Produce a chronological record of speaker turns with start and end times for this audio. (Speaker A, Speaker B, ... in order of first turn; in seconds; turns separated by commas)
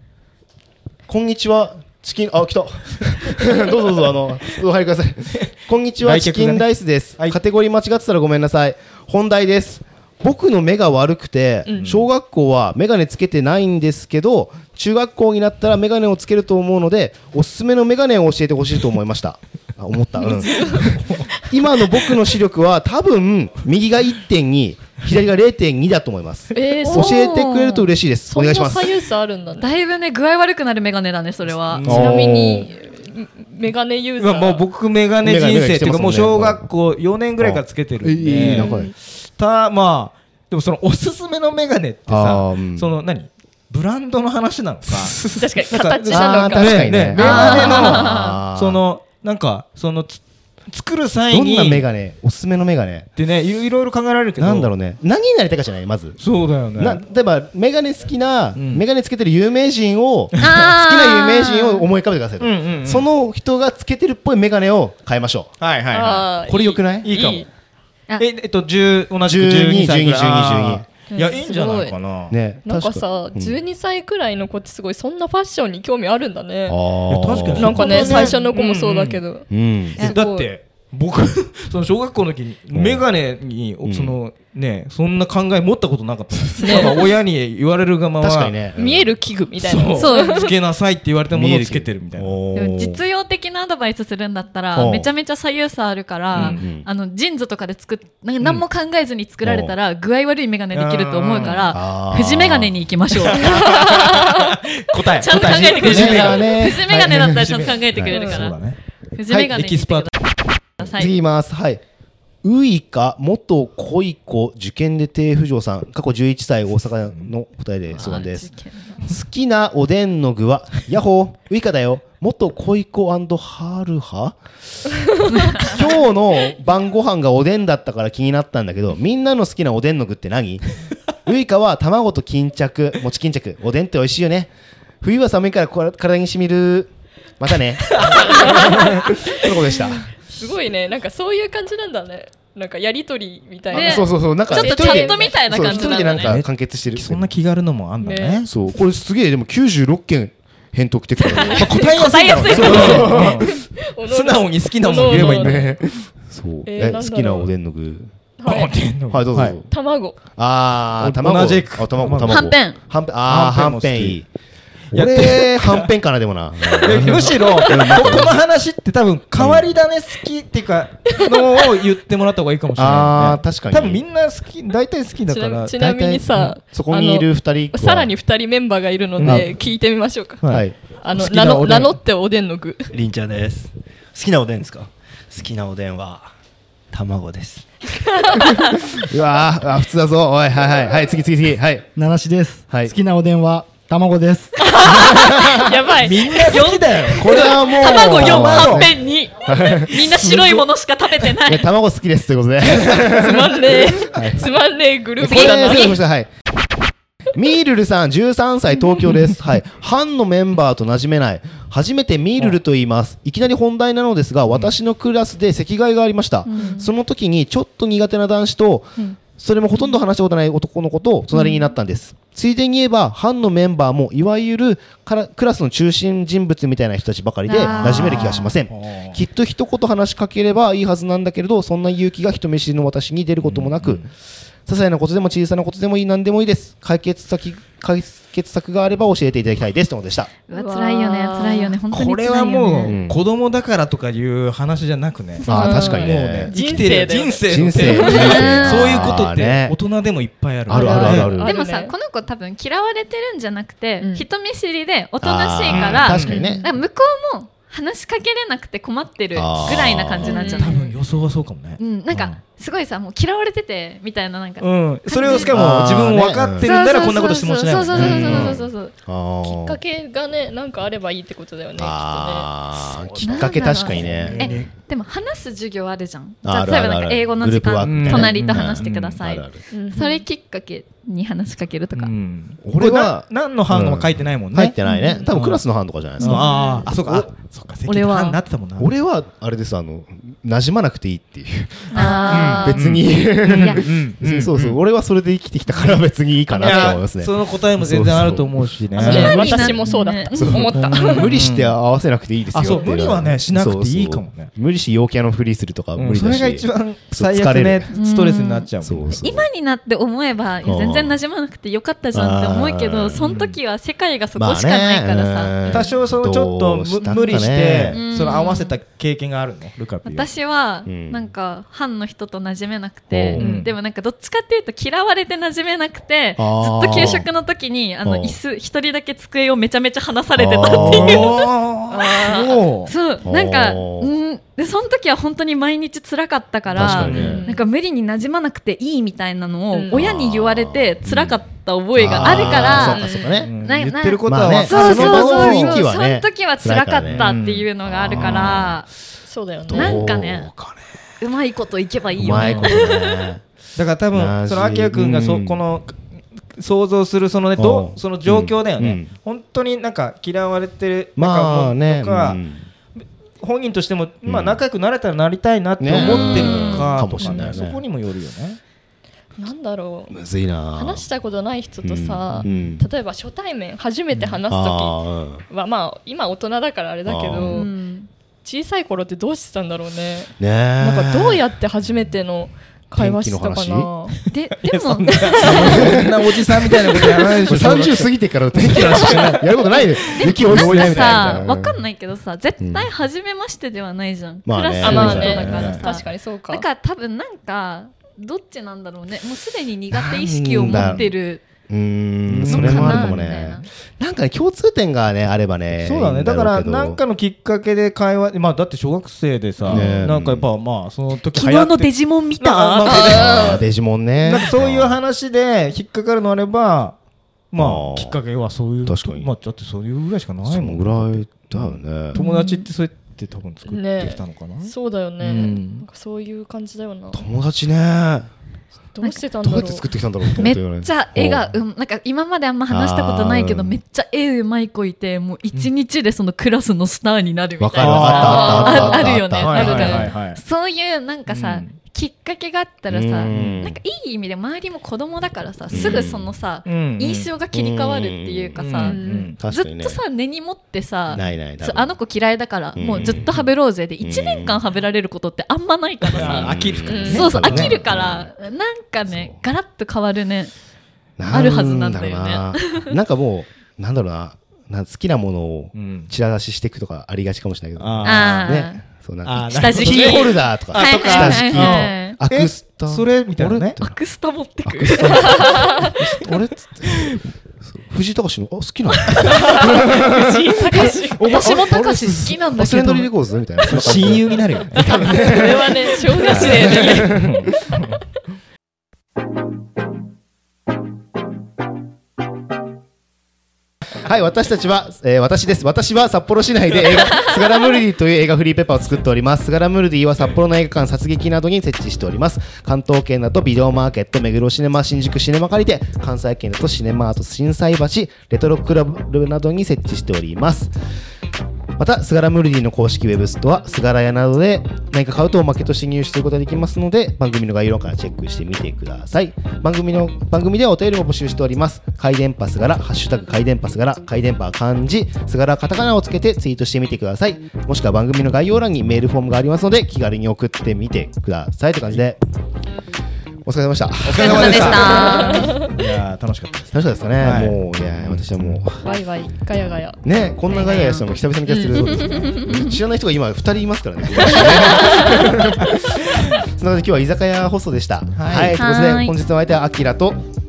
Speaker A: 1.1-28.9, Speaker B: 6.0-6.7, Speaker C: 11.7-12.0, Speaker B: 11.8-12.1, Speaker C: 20.2-20.9, Speaker B: 21.0-21.3, Speaker C: 26.5-27.2, Speaker D: 26.8-27.9, Speaker C: 28.3-29.8, Speaker D: 29.6-31.9, Speaker B: 31.6-32.4, Speaker A: 31.9-32.7, Speaker C: 31.9-34.6, Speaker B: 34.2-51.9, Speaker A: 35.2-36.6, Speaker A: 37.4-38.9, Speaker C: 38.4-38.9, Speaker A: 42.1-42.9, Speaker C: 45.3-48.0, Speaker A: 46.1-48.8, Speaker D: 47.1-48.4, Speaker A: 51.3-53.1, Speaker B: 53.1-54.7, Speaker A: 54.4-56.2, Speaker B: 56.2-57.0, Speaker A: 56.8-65.5, Speaker B: 58.6-58.8, Speaker B: 60.3-60.6, Speaker D: 60.4-61.9, Speaker B: 62.4-63.1, Speaker B: 65.6-66.4, Speaker C: 65.9-67.5, Speaker A: 66.5-67.1, Speaker B: 67.0-67.5, Speaker B: 68.2-72.3, Speaker A: 69.2-70.9, Speaker D: 71.1-71.9, Speaker A: 72.3-73.6, Speaker C: 72.6-76.8, Speaker A: 76.7-78.0, Speaker B: 77.1-79.2, Speaker C: 77.5-80.5, Speaker D: 77.9-78.4, Speaker A: 79.5-80.0, Speaker B: 80.0-88.5, Speaker A: 82.7-83.0, Speaker A: 83.8-84.1, Speaker C: 86.6-87.0, Speaker D: 86.6-87.1, Speaker A: 88.2-89.1, Speaker C: 88.7-90.5, Speaker B: 89.6-92.4, Speaker D: 90.0-90.5, Speaker A: 91.3-93.0, Speaker D: 92.6-104.4, Speaker A: 94.7-95.1, Speaker B: 96.3-96.6, Speaker A: 96.3-96.9, Speaker A: 99.4-99.7, Speaker B: 100.7-101.7, Speaker A: 101.7-102.7, Speaker B: 103.2-108.8, Speaker C: 103.6-104.2, Speaker D: 105.1-108.6, Speaker A: 105.3-108.0, Speaker C: 108.1-108.5, Speaker D: 109.1-110.1, Speaker A: 109.3-109.6, Speaker B: 109.5-110.1, Speaker D: 110.8-111.1, Speaker A: 110.8-111.8, Speaker A: 112.4-124.4, Speaker D: 117.9-119.1, Speaker D: 125.3-125.7, Speaker A: 125.4-130.6, Speaker A: 131.2-140.1, Speaker B: 137.9-138.7, Speaker C: 138.2-146.1, Speaker D: 143.7-146.4, Speaker A: 143.7-147.3, Speaker B: 146.1-148.5, Speaker C: 148.0-148.5, Speaker A: 148.5-153.5, Speaker C: 151.3-155.7, Speaker D: 151.4-153.2, Speaker B: 151.5-155.7, Speaker A: 155.1-158.1, Speaker C: 156.6-157.5, Speaker C: 158.4-158.7, Speaker B: 158.4-159.6, Speaker A: 159.1-159.7, Speaker C: 159.7-160.2, Speaker A: 160.3-164.3, Speaker B: 161.0-162.6, Speaker D: 162.2-162.8, Speaker B: 163.3-164.2, Speaker A: 164.9-168.4, Speaker B: 164.9-165.9, Speaker B: 166.8-176.6, Speaker A: 169.4-169.7, Speaker C: 171.1-171.8, Speaker A: 172.8-174.0, Speaker C: 175.3-182.9, Speaker A: 175.8-178.1, Speaker B: 179.2-179.6, Speaker A: 179.2-179.5, Speaker B: 180.4-181.9, Speaker A: 180.5-180.8, Speaker E: 182.9-186.3, Speaker E: 186.9-187.6, Speaker C: 188.0-188.6, Speaker A: 188.3-191.9, Speaker E: 191.9-194.8, Speaker C: 194.6-197.0, Speaker A: 194.8-195.7, Speaker B: 195.9-198.9, Speaker D: 196.5-201.7, Speaker A: 197.1-200.7, Speaker A: 201.3-204.4, Speaker C: 202.7-206.0, Speaker A: 205.2-206.3, Speaker D: 205.3-206.0, Speaker A: 207.3-234.1, Speaker D: 216.4-216.9, Speaker D: 227.4-228.5, Speaker B: 227.6-229.2, Speaker B: 233.4-234.1, Speaker A: 234.7-240.3, Speaker D: 240.5-242.9, Speaker C: 240.5-241.8, Speaker B: 241.9-251.4, Speaker A: 242.9-243.2, Speaker A: 245.4-246.5, Speaker C: 245.4-248.6, Speaker A: 247.4-249.7, Speaker D: 248.0-249.2, Speaker C: 250.7-251.9, Speaker A: 250.7-251.6, Speaker D: 250.7-261.0, Speaker C: 254.0-254.3, Speaker A: 255.2-256.6, Speaker B: 255.7-256.4, Speaker C: 256.2-256.8, Speaker A: 259.4-260.6, Speaker C: 260.2-260.9, Speaker B: 260.4-262.4, Speaker D: 261.8-265.5, Speaker B: 264.6-268.6, Speaker A: 265.5-266.7, Speaker D: 266.6-268.9, Speaker A: 267.9-269.8, Speaker C: 269.4-272.5, Speaker A: 271.8-274.6, Speaker D: 273.2-282.1, Speaker B: 274.0-274.7, Speaker A: 276.4-279.6, Speaker B: 277.8-278.9, Speaker C: 279.7-280.2, Speaker B: 281.9-284.7, Speaker A: 282.6-287.3, Speaker C: 284.9-285.4, Speaker B: 285.3-285.6, Speaker B: 286.2-288.9, Speaker D: 286.2-286.8, Speaker C: 286.3-286.8, Speaker D: 287.9-288.4, Speaker A: 288.8-298.8, Speaker D: 291.9-292.8, Speaker C: 291.9-292.8, Speaker B: 292.6-294.8, Speaker C: 296.6-297.0, Speaker B: 296.6-299.8, Speaker D: 298.9-300.7, Speaker C: 299.0-301.4, Speaker A: 300.3-307.9, Speaker B: 300.6-301.7, Speaker B: 302.5-304.5, Speaker B: 305.9-309.2, Speaker D: 307.9-308.7, Speaker A: 308.8-309.5, Speaker D: 309.2-315.6, Speaker A: 310.6-311.2, Speaker A: 312.1-313.2, Speaker B: 313.2-313.6, Speaker A: 314.4-318.0, Speaker B: 315.7-320.3, Speaker D: 317.0-318.8, Speaker D: 320.0-343.1, Speaker A: 320.9-321.2, Speaker A: 323.1-323.4, Speaker B: 323.4-323.7, Speaker A: 326.4-327.3, Speaker A: 328.1-328.4, Speaker A: 330.4-331.3, Speaker B: 330.6-332.9, Speaker A: 333.2-334.1, Speaker A: 336.7-337.4, Speaker B: 336.8-337.4, Speaker C: 337.1-337.6, Speaker C: 339.7-340.1, Speaker A: 339.9-341.4, Speaker A: 341.9-343.5, Speaker B: 342.1-342.7, Speaker C: 342.5-343.5, Speaker B: 343.4-345.9, Speaker D: 343.6-348.9, Speaker A: 344.2-348.8, Speaker B: 347.1-348.6, Speaker C: 349.3-350.1, Speaker A: 349.7-350.9, Speaker D: 349.7-350.5, Speaker D: 351.2-353.3, Speaker A: 352.2-353.4, Speaker B: 352.3-352.8, Speaker B: 353.8-356.0, Speaker A: 354.1-355.6, Speaker B: 356.5-362.4, Speaker A: 357.6-359.1, Speaker A: 361.2-362.7, Speaker B: 363.4-368.6, Speaker A: 364.2-364.6, Speaker A: 365.8-367.8, Speaker D: 365.9-367.4, Speaker C: 369.4-370.2, Speaker A: 370.1-371.1, Speaker C: 370.7-377.7, Speaker A: 371.8-372.8, Speaker A: 374.5-375.4, Speaker A: 377.1-377.6, Speaker D: 377.5-378.1, Speaker C: 378.4-384.2, Speaker A: 380.4-381.4, Speaker A: 382.9-383.9, Speaker B: 384.2-391.5, Speaker D: 384.3-385.8, Speaker C: 385.1-385.8, Speaker A: 385.6-391.8, Speaker C: 388.8-389.3, Speaker D: 390.2-401.4, Speaker A: 392.6-392.9, Speaker A: 394.4-395.8, Speaker C: 394.8-396.7, Speaker B: 394.8-395.9, Speaker A: 399.9-401.1, Speaker B: 400.7-401.0, Speaker A: 401.7-407.0, Speaker B: 402.3-403.3, Speaker D: 402.4-403.7, Speaker B: 405.8-413.6, Speaker D: 409.7-410.1, Speaker A: 409.7-410.5, Speaker D: 411.3-413.5, Speaker A: 412.8-415.0, Speaker C: 413.0-413.7, Speaker B: 414.2-417.0, Speaker B: 417.5-425.8, Speaker A: 417.6-418.2, Speaker A: 418.9-419.3, Speaker A: 420.4-422.2, Speaker D: 422.1-422.6, Speaker C: 422.2-422.6, Speaker C: 423.7-427.2, Speaker A: 427.1-428.3, Speaker C: 428.9-429.8, Speaker A: 429.4-431.6, Speaker D: 430.4-456.6, Speaker A: 432.7-433.8, Speaker A: 437.6-440.1, Speaker B: 437.8-440.4, Speaker C: 438.2-440.1, Speaker B: 441.3-441.7, Speaker A: 442.9-443.8, Speaker B: 443.3-443.6, Speaker B: 445.7-446.1, Speaker A: 445.7-446.3, Speaker B: 446.6-447.3, Speaker A: 447.5-448.6, Speaker B: 448.6-449.4, Speaker C: 448.8-449.3, Speaker A: 449.4-450.0, Speaker A: 451.1-451.9, Speaker A: 452.7-453.3, Speaker B: 453.1-453.5, Speaker A: 454.0-454.6, Speaker A: 456.1-458.3, Speaker B: 456.1-457.8, Speaker C: 456.9-457.3, Speaker D: 457.1-460.5, Speaker A: 461.2-474.0, Speaker D: 461.3-462.9, Speaker B: 465.7-466.1, Speaker B: 467.8-468.5, Speaker D: 468.0-468.8, Speaker B: 469.2-473.8, Speaker D: 469.4-472.2, Speaker D: 473.8-475.9, Speaker A: 474.6-487.5, Speaker C: 475.4-475.6, Speaker D: 479.2-483.1, Speaker C: 479.3-481.2, Speaker B: 483.7-485.0, Speaker C: 484.9-487.3, Speaker D: 486.2-487.1, Speaker B: 486.3-488.0, Speaker A: 494.0-510.7, Speaker A: 511.8-532.2, Speaker A: 533.5-535.1, Speaker B: 534.0-538.6, Speaker D: 534.2-535.6, Speaker C: 534.8-535.7, Speaker A: 536.7-538.8, Speaker C: 538.8-540.0, Speaker A: 540.0-545.7, Speaker D: 540.5-541.0, Speaker C: 541.5-541.9, Speaker D: 541.9-542.8, Speaker D: 544.4-545.1, Speaker A: 546.4-550.2, Speaker B: 548.2-548.6, Speaker D: 548.6-549.1